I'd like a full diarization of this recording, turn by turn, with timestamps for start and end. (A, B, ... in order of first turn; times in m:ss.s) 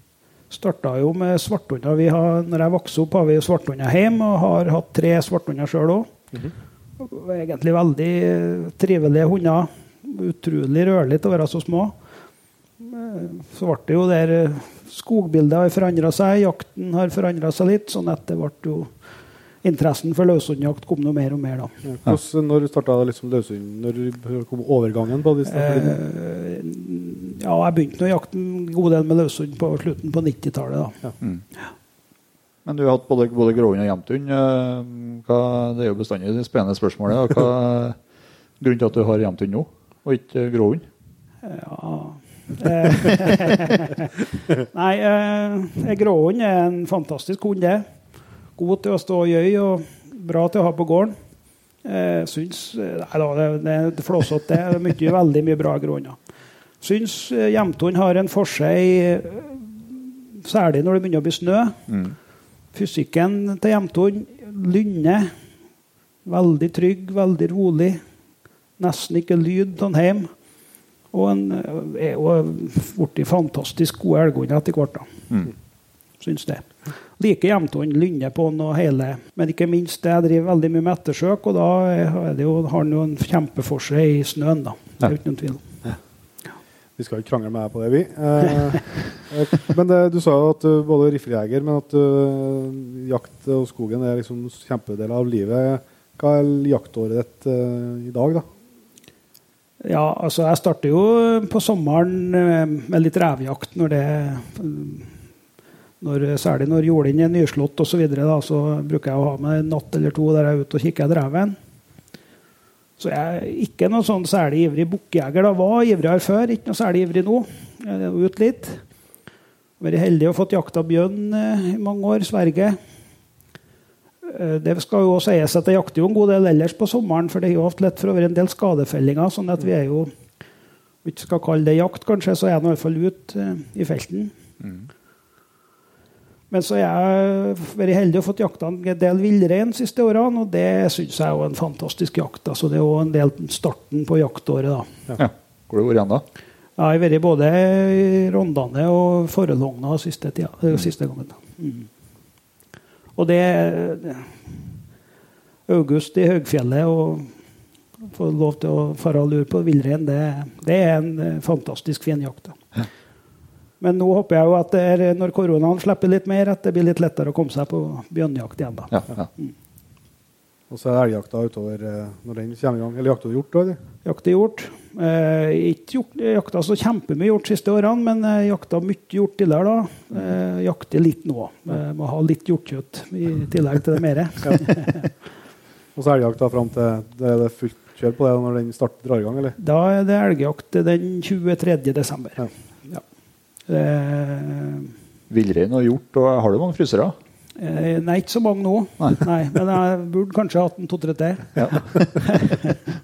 0:00.5-0:06.1 A
0:07.0-0:11.9 A
0:12.8-0:18.9 A
0:19.6-0:21.7 A
0:21.8-0:26.0 B
0:25.4-0:31.0 A
0:32.6-0:38.0 C
0:38.6-0:40.8 C
0:41.4-0:47.9 A
0:48.6-0:51.2 A
0:51.8-0:56.2 A
0:56.8-1:01.8 A
1:01.9-1:02.1 C
1:02.7-1:05.3 A
1:06.2-1:08.0 A
1:08.8-1:10.3 A
1:11.1-1:15.1 A
1:16.2-1:25.6 A
1:27.0-1:38.4 B
1:39.8-1:45.1 A
1:46.0-1:51.6 A
1:53.0-1:58.8 A
1:59.8-2:02.8 A
2:04.2-2:10.1 A
2:11.0-2:14.3 A
2:14.6-2:14.9 C
2:16.5-2:25.0 A
2:25.2-2:26.2 C
2:26.8-2:31.9 A
2:33.2-2:34.4 A
2:35.7-2:37.3 A
2:38.0-2:42.6 A
2:43.8-2:49.5 A
2:48.9-2:49.3 C
2:50.7-2:53.8 B
2:54.0-3:05.1 A
3:05.9-3:09.5 B
3:09.6-3:13.0 A
3:13.7-3:14.9 A
3:15.3-3:17.2 C
3:17.6-3:21.5 A
3:21.6-3:22.0 C
3:22.3-3:22.7 A